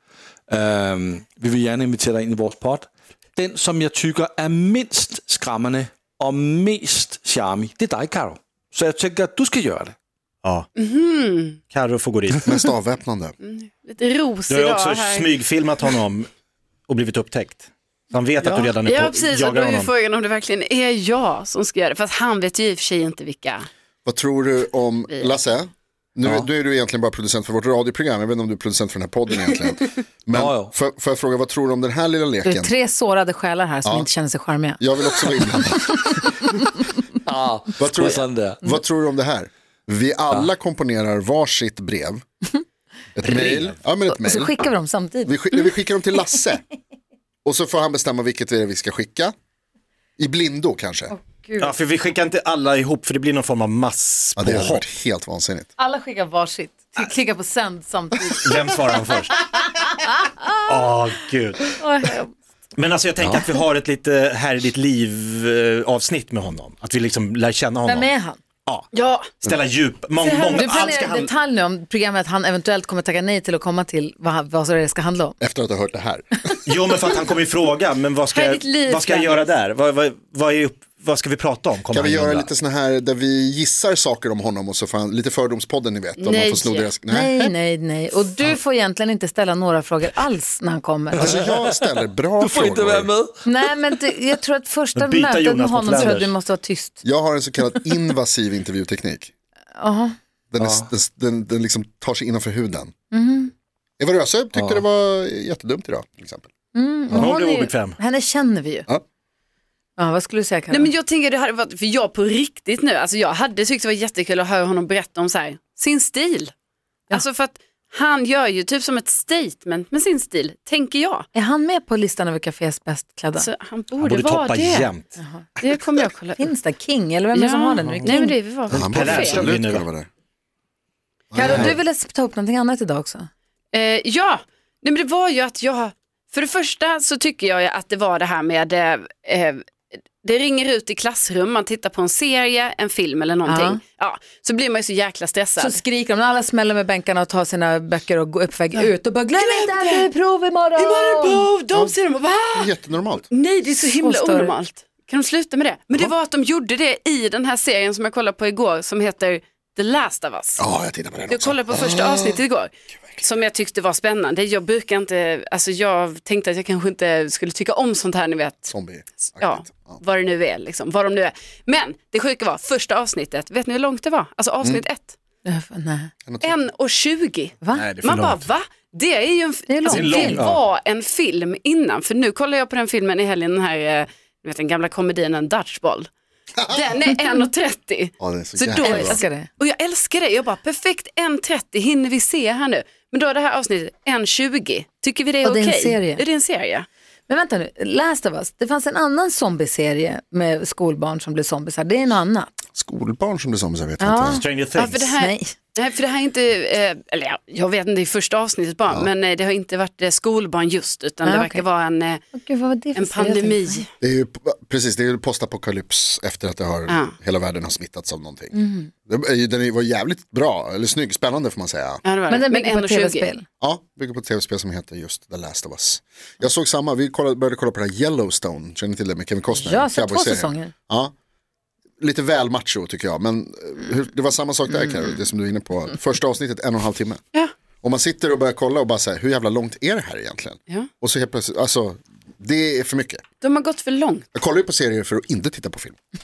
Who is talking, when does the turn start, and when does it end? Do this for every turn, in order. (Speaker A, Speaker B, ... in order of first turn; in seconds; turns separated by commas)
Speaker A: 0.5-9.9, Speaker B: 10.8-11.6, Speaker C: 11.7-12.4, Speaker D: 12.4-13.3, Speaker B: 13.4-16.0, Speaker C: 14.5-16.3, Speaker C: 16.9-19.9, Speaker B: 18.5-23.7, Speaker D: 24.1-32.7, Speaker B: 25.1-25.4, Speaker A: 30.3-30.8, Speaker E: 32.4-36.1, Speaker D: 34.8-36.1, Speaker A: 37.3-38.7, Speaker D: 37.8-42.2, Speaker D: 43.2-44.6, Speaker C: 43.2-43.8, Speaker E: 44.1-45.4, Speaker D: 45.2-46.6, Speaker D: 47.5-49.3, Speaker D: 50.2-51.1, Speaker E: 51.1-51.8, Speaker C: 51.6-54.8, Speaker D: 54.4-55.7, Speaker E: 55.8-58.8, Speaker C: 58.4-59.4, Speaker E: 60.0-60.3, Speaker C: 60.7-61.8, Speaker E: 61.8-62.3, Speaker C: 62.8-68.1, Speaker D: 63.2-63.5, Speaker E: 67.9-68.4, Speaker B: 68.9-69.4, Speaker C: 69.4-71.3, Speaker B: 70.2-71.0, Speaker E: 70.4-75.4, Speaker D: 75.4-76.4, Speaker C: 76.7-82.5, Speaker B: 78.3-79.5, Speaker D: 81.9-87.5, Speaker B: 86.2-86.9, Speaker E: 87.1-91.4, Speaker A: 91.2-91.5, Speaker D: 91.2-93.1, Speaker A: 92.4-93.5, Speaker E: 93.5-97.0, Speaker C: 95.0-96.3, Speaker D: 97.0-99.3, Speaker E: 99.8-100.1, Speaker D: 100.5-102.9, Speaker A: 100.6-100.8, Speaker E: 103.1-103.5, Speaker D: 104.0-106.5, Speaker A: 104.5-104.8, Speaker E: 106.7-108.9, Speaker D: 107.1-107.3, Speaker C: 107.2-108.0, Speaker E: 110.0-110.9, Speaker B: 110.7-116.5, Speaker B: 117.1-121.3, Speaker E: 121.3-123.5, Speaker B: 123.4-124.9, Speaker C: 124.0-125.2, Speaker E: 125.2-125.5, Speaker B: 125.6-126.4, Speaker E: 126.4-128.3, Speaker B: 127.3-129.5, Speaker C: 127.8-128.1, Speaker D: 128.7-130.1, Speaker C: 128.9-129.9, Speaker D: 131.3-131.8, Speaker E: 131.3-133.3, Speaker C: 131.4-131.7, Speaker B: 133.7-139.7, Speaker B: 140.2-145.8, Speaker E: 143.5-143.8, Speaker E: 145.6-151.4, Speaker B: 148.7-150.1, Speaker B: 150.8-152.7, Speaker D: 151.7-152.0, Speaker D: 152.5-153.3, Speaker B: 153.3-160.7, Speaker E: 153.7-154.6, Speaker D: 160.6-162.4, Speaker B: 161.3-168.7, Speaker D: 168.7-170.0, Speaker B: 169.4-175.2, Speaker E: 175.4-176.1, Speaker D: 176.3-176.6, Speaker B: 176.4-186.1, Speaker C: 177.7-178.5, Speaker E: 179.7-180.4, Speaker C: 179.9-180.6, Speaker B: 186.7-196.9, Speaker D: 188.2-189.2, Speaker E: 188.8-189.5, Speaker E: 195.4-196.2, Speaker E: 197.3-202.5, Speaker D: 202.8-204.4, Speaker E: 204.0-204.5, Speaker C: 204.4-205.1, Speaker B: 204.8-212.2, Speaker E: 205.2-205.6, Speaker E: 211.2-211.6, Speaker E: 212.3-213.8, Speaker B: 213.0-213.9, Speaker D: 214.0-222.0, Speaker B: 216.9-217.1, Speaker E: 218.5-218.9, Speaker B: 222.0-223.3, Speaker E: 222.3-223.5, Speaker D: 223.6-231.1, Speaker E: 229.6-230.7, Speaker D: 232.0-237.2, Speaker D: 237.8-243.2, Speaker B: 243.4-244.3, Speaker D: 244.3-246.0